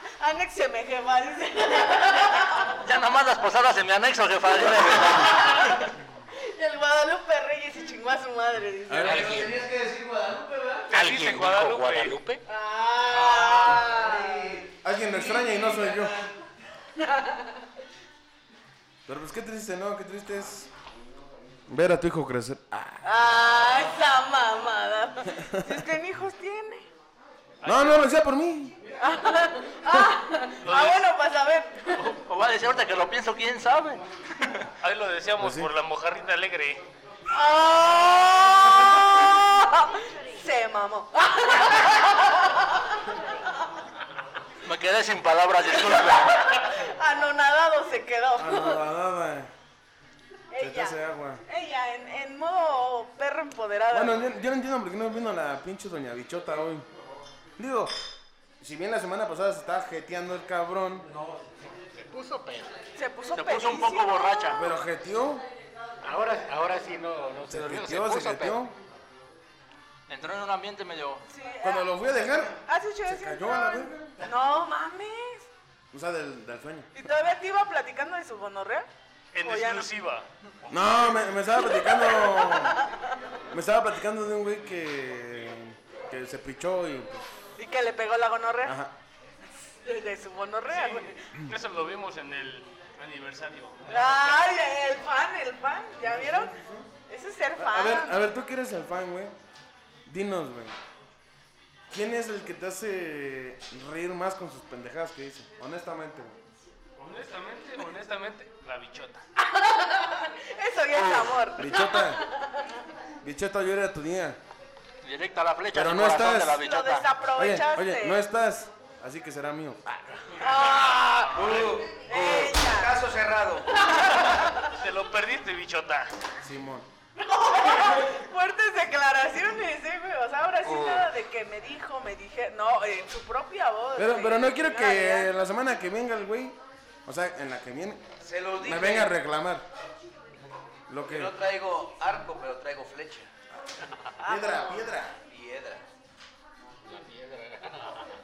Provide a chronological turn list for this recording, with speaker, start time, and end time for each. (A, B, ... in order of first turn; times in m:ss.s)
0:00.2-0:02.7 A
0:02.8-0:05.7 B
0:05.1-0:09.2 A
0:08.9-0:09.4 C
0:09.0-0:10.9 D
0:09.0-0:09.6 E
0:10.9-0:12.2 F
0:10.9-0:12.4 E
0:12.4-0:14.6 A
0:13.1-0:16.3 D
0:13.4-0:13.9 F
0:14.8-0:16.1 C
0:17.0-0:17.5 A
0:19.0-0:20.7 C
0:21.7-0:23.1 C
0:23.0-0:26.9 A
0:25.3-0:25.8 C
0:27.6-0:28.0 F
0:27.6-0:28.7 C
0:29.0-0:32.1 A
0:30.6-0:31.0 F
0:32.0-0:34.0 B
0:34.8-0:36.8 F
0:35.4-0:35.7 C
0:37.3-0:43.3 A
0:44.6-0:46.4 B
0:45.8-0:48.8 A
0:48.4-0:49.5 C
0:50.5-0:54.3 A
0:50.6-0:51.4 C
0:53.9-0:56.8 C
0:57.6-0:57.9 C
0:58.6-1:01.1 C
1:01.9-1:02.7 E
1:03.0-1:04.7 A
1:03.3-1:04.7 B
1:04.5-1:05.4 C
1:06.0-1:08.6 E
1:07.5-1:08.8 C
1:10.1-1:11.2 B
1:11.3-1:11.9 A
1:11.6-1:14.1 C
1:12.6-1:15.5 A
1:15.9-1:16.9 C
1:16.9-1:18.9 A
1:19.3-1:20.8 F
1:19.4-1:19.9 A
1:20.7-1:22.8 C
1:21.6-1:23.1 A
1:23.5-1:27.2 C
1:27.6-1:28.8 A
1:28.6-1:28.9 C
1:29.8-1:31.2 A
1:30.7-1:34.5 F
1:33.9-1:36.5 A
1:36.0-1:36.9 C
1:37.1-1:38.2 A
1:37.6-1:39.3 C
1:40.0-1:40.8 C
1:41.9-1:46.3 C
1:47.0-1:49.2 F
1:49.4-1:52.7 A
1:50.9-1:51.4 E
1:51.6-1:52.2 C
1:53.2-1:54.4 C
1:55.0-1:57.1 B
1:55.7-1:56.6 C
1:56.6-1:58.2 A
1:57.4-2:00.2 C
2:00.4-2:03.0 A
2:00.6-2:01.8 F
2:01.3-2:03.8 D
2:03.7-2:04.7 A
2:04.7-2:06.2 F
2:06.4-2:06.9 C
2:07.2-2:15.3 A
2:10.7-2:11.0 E
2:14.0-2:18.0 C
2:18.2-2:19.1 D
2:18.6-2:19.6 C
2:20.9-2:21.3 C
2:21.0-2:23.3 D
2:23.5-2:25.1 C
2:24.2-2:24.9 A
2:25.3-2:25.8 D
2:26.8-2:28.1 E